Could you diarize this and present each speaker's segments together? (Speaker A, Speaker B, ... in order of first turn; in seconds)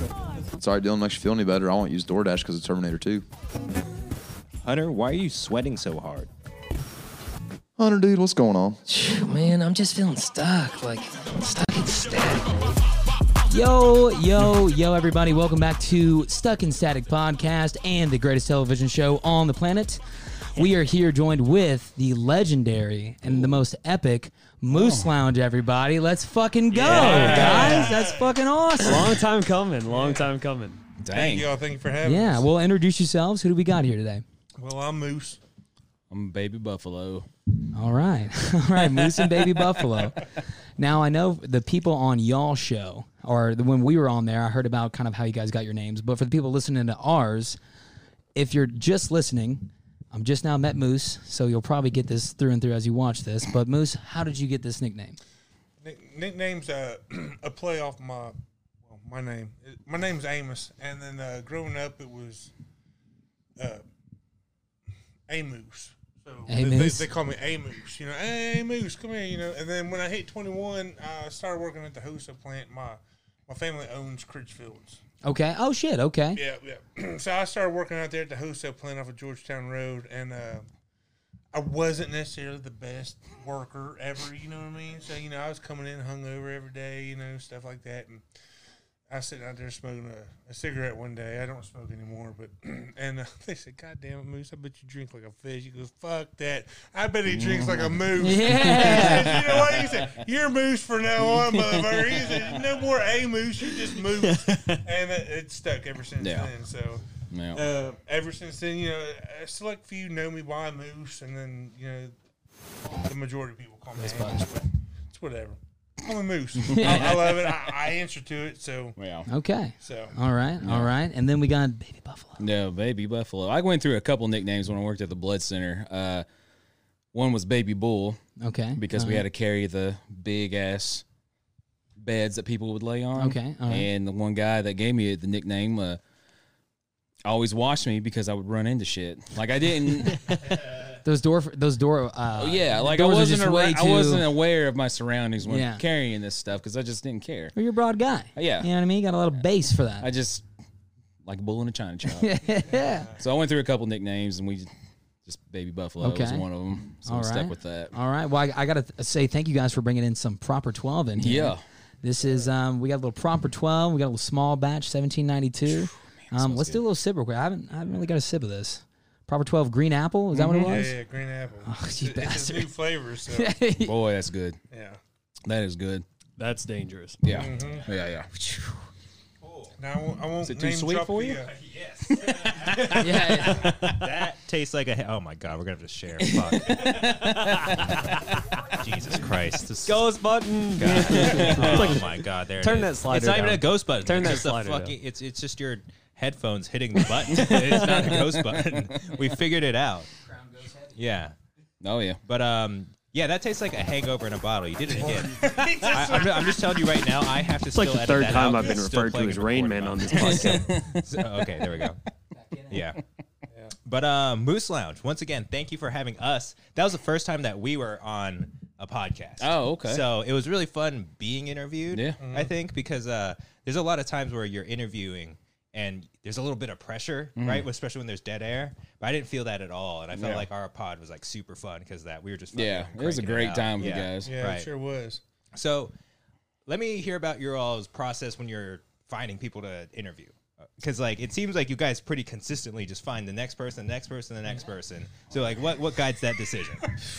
Speaker A: 0.5-3.2, 7.8-8.8
Speaker B: 4.6-6.3, 177.3-177.9, 179.4-179.8, 180.8-188.1, 188.6-190.1, 190.8-200.1, 200.9-201.3, 202.2-212.0, 212.7-213.0, 213.8-234.7, 235.5-235.9, 236.7-246.9
Speaker C: 8.9-12.8
Speaker D: 13.5-20.0, 20.5-29.2, 32.0-34.2, 37.7-47.6, 48.3-55.2, 66.5-67.1, 75.2-76.4, 98.2-99.4, 114.0-114.5, 116.7-117.5, 119.3-122.4, 128.4-129.2, 133.2-133.9, 141.0-144.3, 145.4-145.8, 147.5-150.1, 152.2-153.1, 156.0-170.9, 171.6-172.7, 173.3-173.9, 178.3-178.8, 182.9-183.7, 200.2-201.0, 212.3-212.8
Speaker E: 23.2-23.6, 24.7-25.1, 26.9-27.9, 31.0-31.5, 36.1-37.3, 38.8-39.6, 97.2-99.9, 101.2-102.4, 106.2-106.5, 107.3-107.7, 116.7-117.2, 119.0-119.3, 120.6-120.9, 122.4-126.2, 127.1-128.2, 128.8-131.0, 132.0-136.0, 137.2-140.4, 142.3-147.5, 148.3-148.7, 150.0-150.4, 151.2-152.4, 153.1-154.7, 155.2-157.9, 161.2-161.6, 165.7-166.8, 170.3-170.8, 173.8-174.6, 175.4-176.0, 177.2-178.3, 180.4-181.4, 182.1-184.1, 186.2-187.9, 191.1-192.0, 197.3-199.1, 201.8-202.2, 210.2-211.9, 219.4-220.1, 221.9-222.2, 227.4-227.7, 230.1-230.5, 232.5-234.3
Speaker F: 26.8-27.9, 28.8-30.8, 176.4-177.2, 187.5-188.3, 189.8-194.9, 197.5-198.1, 207.7-210.8
Speaker G: 26.9-28.4, 29.9-30.3, 31.1-32.5, 34.6-35.4, 55.8-62.5, 63.6-63.8, 65.3-75.0, 76.3-80.7, 81.5-88.2, 89.1-112.1, 113.0-119.0, 119.8-120.2, 170.6-173.6, 174.7-175.0, 177.3-177.8, 179.8-181.5, 204.9-206.8, 208.4-208.7, 222.2-222.5, 233.8-235.2